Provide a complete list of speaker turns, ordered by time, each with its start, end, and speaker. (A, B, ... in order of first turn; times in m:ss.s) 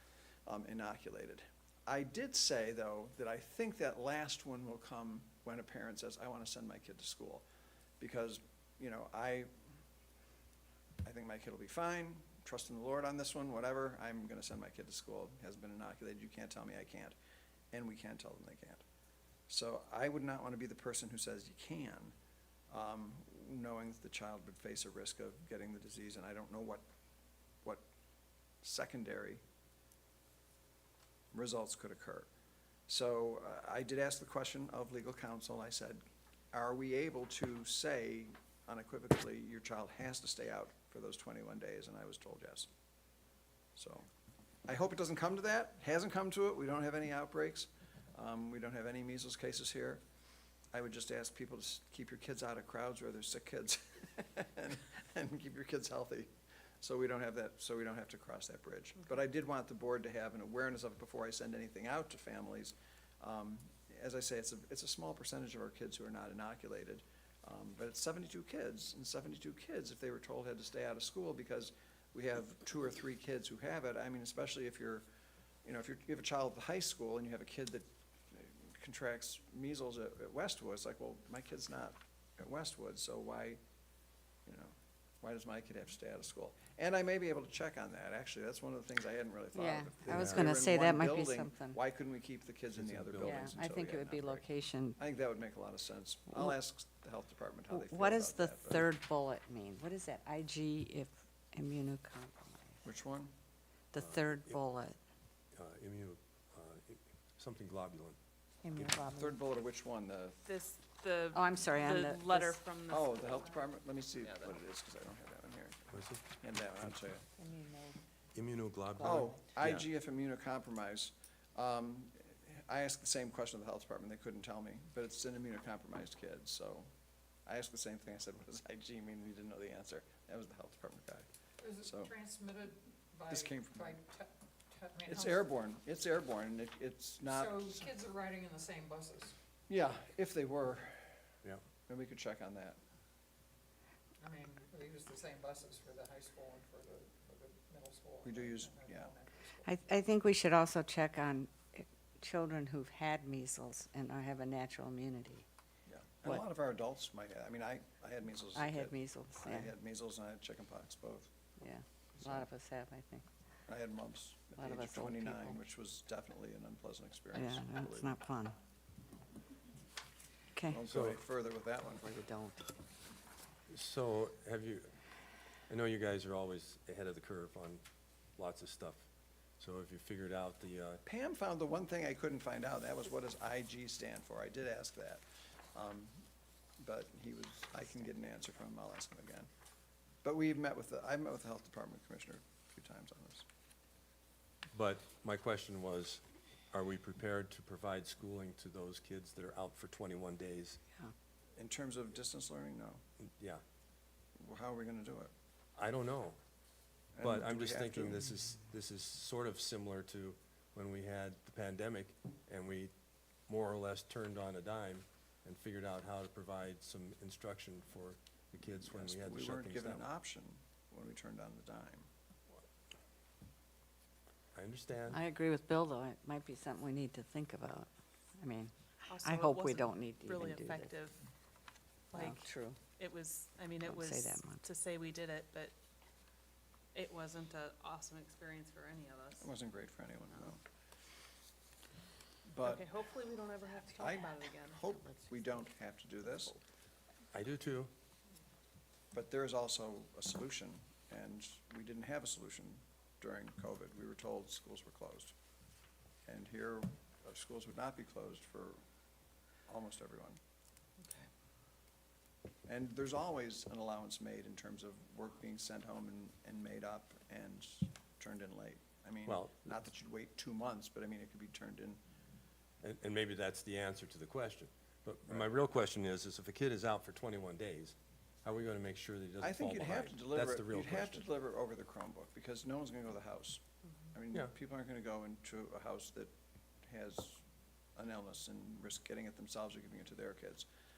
0:00.5-0:07.4 A
0:08.0-0:09.5 A
0:11.0-0:17.2 A
0:17.7-0:18.8 A
0:19.5-0:22.2 A
0:22.7-0:26.8 A
0:28.6-0:29.4 A
0:31.3-0:32.3 A
0:32.9-0:42.7 A
0:43.8-0:44.1 A
0:44.7-0:50.0 A
0:50.7-1:15.0 A
1:15.6-1:23.6 A
1:24.5-1:38.9 A
1:29.5-1:31.8 B
1:30.1-1:30.6 C
1:32.8-1:33.5 C
1:33.2-1:35.0 B
1:37.7-1:42.8 B
1:42.8-1:43.3 A
1:43.9-1:45.0 B
1:44.0-1:44.6 C
1:45.6-1:48.2 C
1:48.6-1:49.3 B
1:48.7-1:49.0 C
1:49.0-1:50.4 A
1:50.4-1:53.7 D
1:51.3-1:52.6 B
1:52.9-1:57.3 A
1:55.9-1:56.2 C
1:57.4-1:58.0 B
1:58.4-1:59.9 C
1:59.0-2:06.9 A
2:07.5-2:11.3 A
2:11.6-2:15.5 E
2:11.8-2:12.1 A
2:13.3-2:13.9 A
2:15.1-2:17.9 A
2:17.2-2:19.4 E
2:19.7-2:21.1 A
2:21.9-2:22.8 A
2:24.2-2:29.7 E
2:28.2-2:29.1 A
2:29.7-2:35.5 B
2:35.9-2:41.3 A
2:38.5-2:39.7 B
2:41.6-2:43.2 B
2:42.2-2:42.4 A
2:43.7-2:48.1 A
2:44.6-2:45.6 B
2:47.3-2:48.6 B
2:50.5-2:50.8 B
2:50.7-2:52.1 A
2:50.9-2:51.2 C
2:52.0-2:52.7 B
2:53.7-2:54.9 C
2:55.7-2:57.8 C
2:58.4-2:59.1 C
2:59.6-3:01.0 C
3:01.0-3:05.2 A
3:05.7-3:06.2 A
3:06.8-3:09.5 A
3:10.2-3:13.5 A
3:14.7-3:20.8 C
3:21.6-3:23.0 A
3:23.2-3:23.6 C
3:24.4-3:25.3 A
3:25.8-3:26.4 C
3:27.2-3:28.3 A
3:27.2-3:32.9 C
3:33.5-3:40.1 C
3:38.8-3:42.1 A
3:44.6-3:45.2 C
3:45.1-3:50.9 B
3:49.1-3:51.2 D
3:52.1-3:55.7 D
3:52.1-3:52.8 B
3:53.9-3:54.6 B
3:56.9-3:59.5 D
3:59.4-4:00.6 A
4:02.5-4:02.9 A
4:02.6-4:05.0 D
4:04.0-4:06.6 A
4:07.3-4:07.9 C
4:09.1-4:15.4 A
4:16.3-4:18.8 A
4:19.7-4:20.4 A
4:22.7-4:32.0 A
4:29.3-4:29.6 C
4:32.8-4:41.3 C
4:39.4-4:43.6 A
4:44.1-4:46.3 A
4:46.8-4:47.4 A
4:48.0-4:50.7 A